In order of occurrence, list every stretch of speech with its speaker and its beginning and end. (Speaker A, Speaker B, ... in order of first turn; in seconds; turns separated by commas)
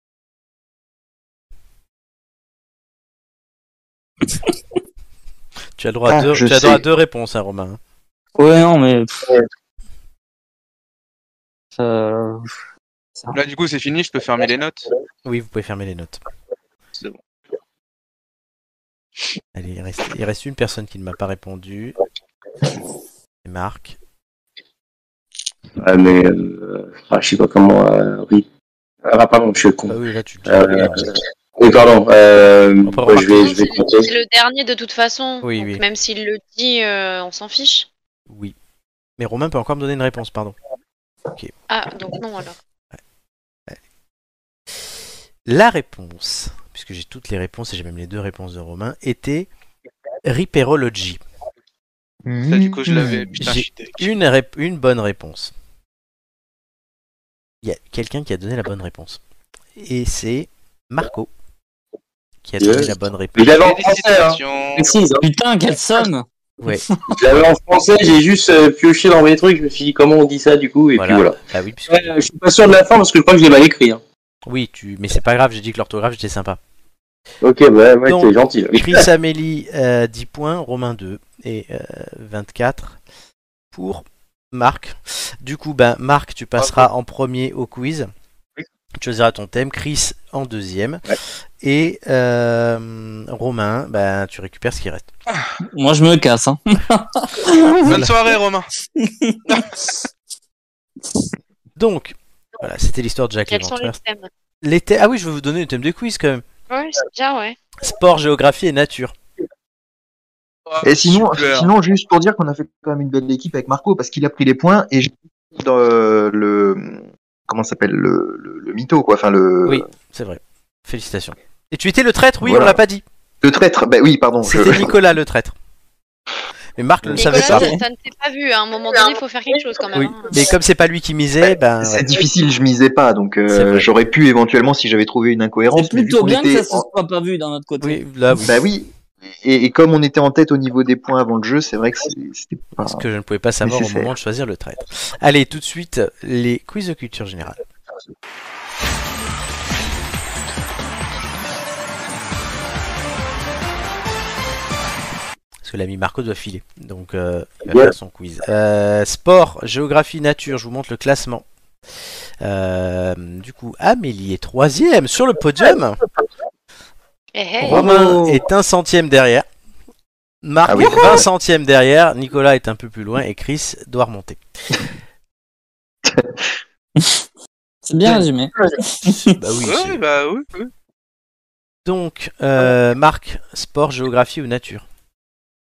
Speaker A: 5.8-7.8, Speaker B: 6.1-6.8, Speaker C: 8.4-9.4, Speaker C: 11.8-12.5, Speaker D: 13.3-14.8, Speaker A: 15.2-16.2, Speaker A: 19.5-22.0, Speaker A: 23.4-24.0, Speaker E: 25.8-28.4, Speaker E: 29.0-34.1, Speaker A: 29.9-31.1, Speaker A: 32.8-33.6, Speaker F: 33.3-37.9, Speaker A: 35.4-35.8, Speaker A: 38.3-38.5, Speaker A: 39.2-40.5, Speaker F: 41.7-42.5, Speaker A: 45.5-49.5, Speaker A: 50.2-51.2, Speaker B: 52.2-53.3, Speaker D: 52.5-54.1, Speaker A: 53.4-55.5, Speaker A: 57.6-59.2, Speaker A: 59.8-61.3, Speaker A: 62.4-63.6, Speaker E: 62.6-65.2, Speaker D: 63.5-64.9, Speaker C: 65.2-66.8, Speaker E: 67.2-71.4, Speaker A: 71.0-72.1, Speaker E: 71.9-74.0, Speaker A: 74.5-76.6, Speaker E: 77.4-79.0, Speaker A: 78.0-83.0, Speaker A: 83.7-88.1, Speaker A: 89.0-91.0, Speaker A: 91.6-95.1, Speaker C: 95.7-97.9, Speaker D: 97.8-98.7, Speaker C: 99.0-99.9, Speaker A: 101.8-104.0, Speaker F: 103.5-104.3, Speaker A: 104.6-106.4, Speaker F: 106.7-107.6, Speaker A: 107.8-109.1, Speaker D: 110.7-111.7, Speaker B: 110.8-119.8, Speaker A: 119.7-123.0, Speaker B: 122.4-122.8, Speaker B: 123.4-124.9, Speaker A: 124.4-125.5, Speaker A: 126.8-127.7, Speaker B: 127.0-127.8, Speaker F: 127.2-130.4, Speaker A: 129.9-132.1, Speaker B: 131.8-136.8, Speaker A: 133.5-133.9, Speaker C: 135.7-138.0, Speaker A: 137.8-138.5, Speaker B: 138.4-143.0, Speaker A: 142.8-147.6, Speaker B: 143.6-144.1, Speaker A: 155.6-161.4, Speaker E: 157.7-157.9, Speaker A: 162.4-166.0, Speaker F: 167.3-167.8, Speaker A: 167.6-169.4, Speaker B: 167.7-168.4, Speaker A: 170.4-174.4, Speaker B: 170.7-171.2, Speaker E: 170.8-171.2, Speaker B: 176.1-176.3, Speaker C: 177.0-177.2, Speaker C: 177.8-179.3, Speaker A: 179.3-180.0, Speaker D: 179.6-180.7, Speaker A: 181.8-184.8